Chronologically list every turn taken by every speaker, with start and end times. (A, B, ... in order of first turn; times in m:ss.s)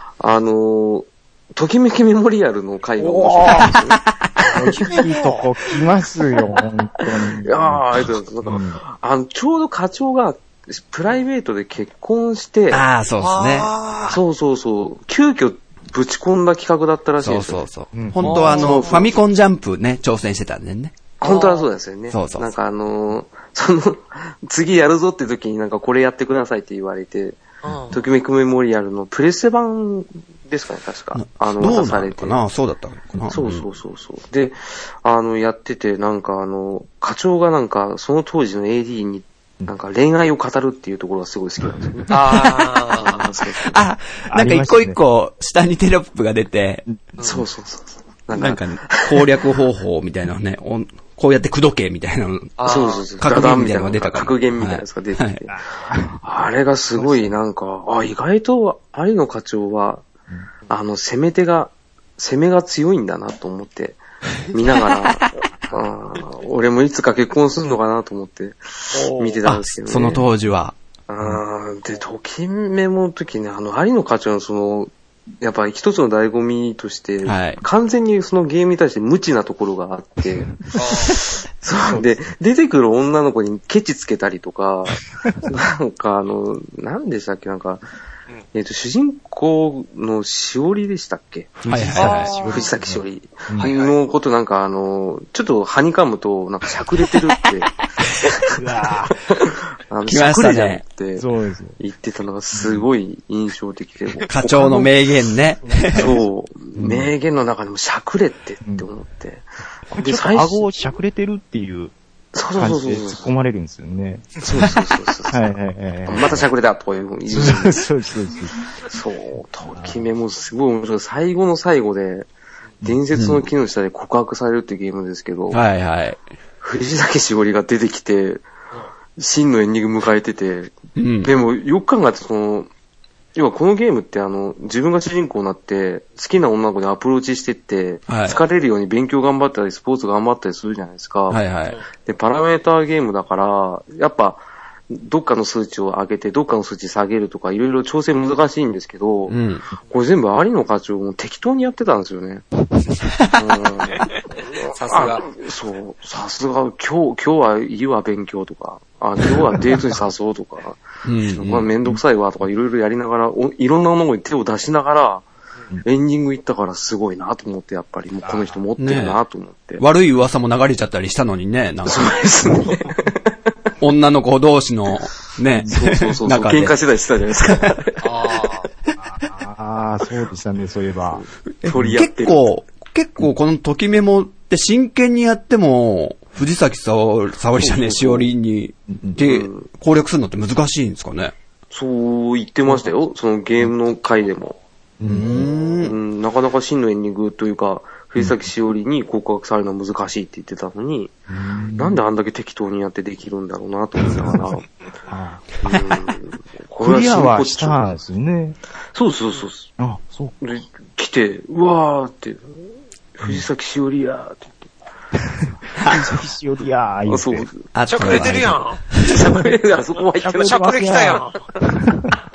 0:00.2-0:05.0 A
0:03.0-0:03.8 B
0:04.5-0:07.8 B
0:04.8-0:05.5 C
0:07.4-0:12.8 A
0:08.4-0:08.8 B
0:12.7-0:13.7 D
0:13.2-0:14.2 C
0:14.1-0:17.6 A
0:17.2-0:21.0 D
0:17.9-0:18.7 B
0:18.2-0:19.0 C
0:18.5-0:19.1 A
0:21.2-0:32.4 A
0:21.2-0:21.7 C
0:22.1-0:22.5 D
0:27.6-0:28.0 C
0:27.7-0:27.9 B
0:31.1-0:33.7 D
0:33.3-0:42.4 A
0:42.1-0:43.3 C
0:42.2-0:42.9 D
0:43.0-0:43.8 A
0:43.6-0:46.8 D
0:44.3-0:45.0 B
0:47.2-0:47.5 C
0:47.2-0:49.3 A
0:48.3-0:52.6 D
0:52.6-0:53.1 C
0:52.6-0:55.5 A
0:53.2-0:55.4 D
0:55.5-0:56.2 B
0:56.2-1:00.0 A
0:57.0-0:57.4 B
1:00.7-1:10.2 A
1:08.9-1:09.4 C
1:09.4-1:10.8 D
1:11.1-1:27.8 A
1:17.2-1:17.6 D
1:20.8-1:21.2 C
1:21.8-1:22.2 B
1:25.2-1:25.6 B
1:28.5-1:38.5 A
1:31.6-1:33.7 B
1:31.7-1:32.3 D
1:32.0-1:32.6 C
1:33.6-1:34.0 C
1:38.5-1:39.2 B
1:39.3-1:41.2 A
1:40.1-1:40.8 D
1:41.2-1:41.8 B
1:41.8-1:44.9 A
1:42.5-1:42.9 B
1:44.3-1:46.2 D
1:45.6-1:46.2 B
1:45.9-1:50.7 A
1:46.8-1:47.1 B
1:49.9-1:51.9 B
1:52.3-1:53.3 A
1:52.6-1:54.4 B
1:54.4-1:55.4 A
1:55.3-1:56.5 B
1:56.1-1:57.9 A
1:57.3-1:58.6 B
1:58.9-2:02.3 A
1:59.8-2:00.0 B
2:02.8-2:05.6 A
2:03.2-2:03.5 D
2:05.5-2:06.2 D
2:06.6-2:08.5 A
2:09.2-2:12.7 A
2:11.0-2:11.3 D
2:13.4-2:21.4 A
2:18.1-2:18.4 D
2:21.3-2:21.8 D
2:22.0-2:29.4 A
2:29.3-2:29.6 D
2:29.9-2:32.5 A
2:33.4-2:40.8 A
2:34.7-2:35.3 C
2:41.0-2:41.7 D
2:41.4-2:45.3 A
2:45.8-2:49.8 A
2:48.8-2:49.2 D
2:49.8-2:52.2 D
2:51.8-2:53.3 A
2:53.8-2:56.8 D
2:55.7-2:58.5 A
2:57.4-2:57.7 D
2:58.0-2:58.7 C
2:59.0-3:01.2 B
3:01.2-3:02.4 A
3:01.6-3:11.3 D
3:07.6-3:08.3 A
3:08.9-3:09.2 B
3:09.2-3:09.7 A
3:11.7-3:14.6 A
3:15.0-3:15.5 B
3:15.0-3:16.0 D
3:15.2-3:21.1 A
3:21.3-3:22.0 B
3:21.8-3:24.7 A
3:24.2-3:25.5 B
3:25.6-3:27.9 A
3:26.8-3:28.6 B
3:28.9-3:29.7 A
3:29.8-3:30.4 B
3:30.4-3:32.4 A
3:33.2-3:34.7 A
3:35.3-3:37.5 B
3:37.1-3:37.7 A
3:37.7-3:39.2 D
3:37.9-3:38.8 C
3:39.0-3:41.2 A
3:40.2-3:42.2 B
3:40.4-3:41.4 C